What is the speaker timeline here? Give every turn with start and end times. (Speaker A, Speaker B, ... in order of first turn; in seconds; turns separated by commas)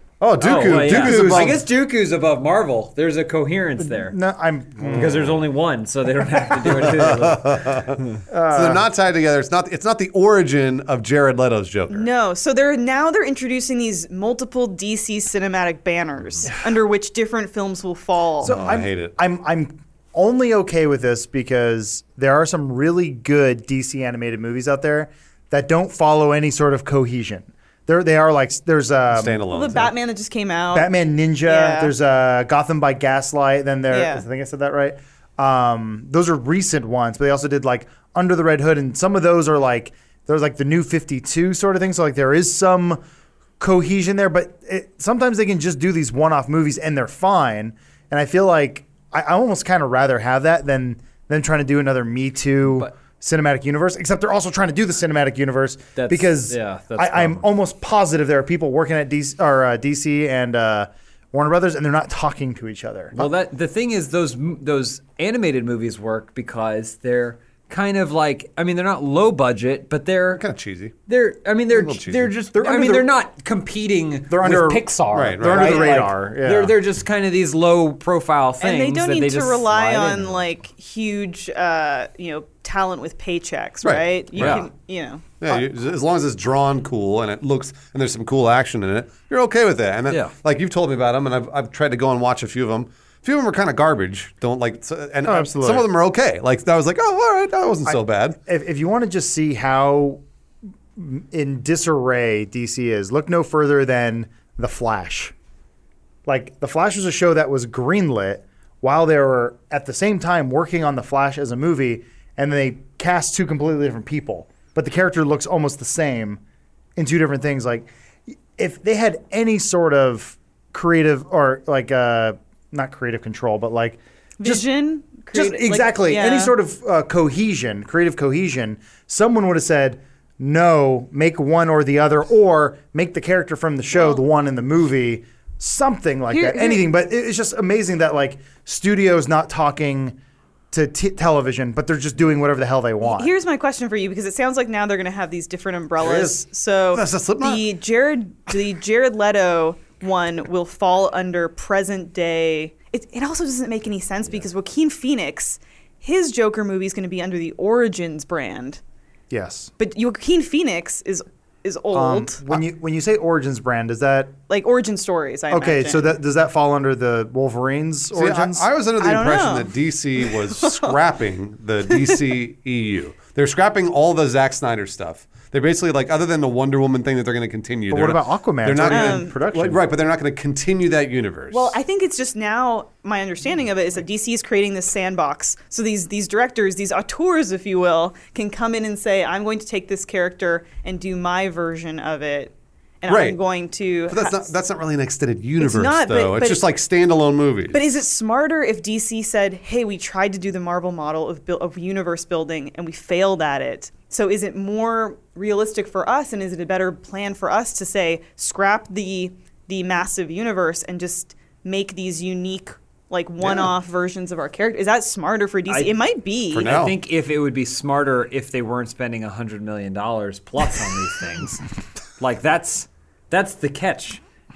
Speaker A: 0.2-1.6, Speaker B: 0.4-4.2, Speaker C: 0.5-1.6, Speaker C: 3.8-5.3, Speaker B: 4.8-8.0, Speaker A: 6.8-12.1, Speaker C: 8.3-8.8, Speaker D: 11.9-18.6, Speaker A: 18.4-19.1, Speaker C: 18.4-29.4, Speaker A: 29.1-29.9, Speaker D: 29.5-30.9, Speaker C: 30.7-43.0, Speaker D: 31.4-31.9, Speaker D: 33.9-34.2, Speaker C: 43.6-63.3, Speaker B: 56.0-57.5, Speaker B: 63.1-70.4, Speaker A: 70.3-70.9, Speaker B: 71.1-80.4, Speaker A: 71.7-72.3, Speaker C: 72.5-73.1, Speaker C: 74.3-76.8, Speaker A: 75.1-75.9, Speaker D: 78.6-85.4, Speaker A: 83.8-84.7, Speaker B: 84.3-84.7, Speaker A: 85.4-98.4, Speaker C: 95.2-95.9, Speaker C: 97.8-100.2, Speaker C: 101.0-105.3, Speaker C: 106.2-116.4, Speaker C: 117.0-117.9, Speaker C: 118.5-124.7, Speaker D: 124.4-126.5, Speaker C: 125.3-140.2, Speaker D: 136.3-136.8, Speaker C: 140.7-143.3, Speaker D: 143.0-158.8, Speaker A: 146.0-147.6, Speaker C: 159.3-159.7, Speaker D: 159.8-162.6, Speaker C: 161.9-164.3, Speaker D: 164.5-166.2, Speaker C: 165.5-168.6, Speaker A: 168.1-181.7, Speaker D: 169.0-171.0, Speaker C: 177.9-179.8, Speaker D: 178.9-179.3, Speaker D: 181.5-194.5, Speaker A: 193.1-193.4, Speaker A: 194.1-197.8, Speaker D: 195.6-196.6, Speaker D: 197.7-216.7, Speaker A: 213.4-213.7, Speaker B: 215.7-215.9, Speaker A: 216.5-216.9, Speaker B: 216.6-221.6, Speaker B: 222.2-224.2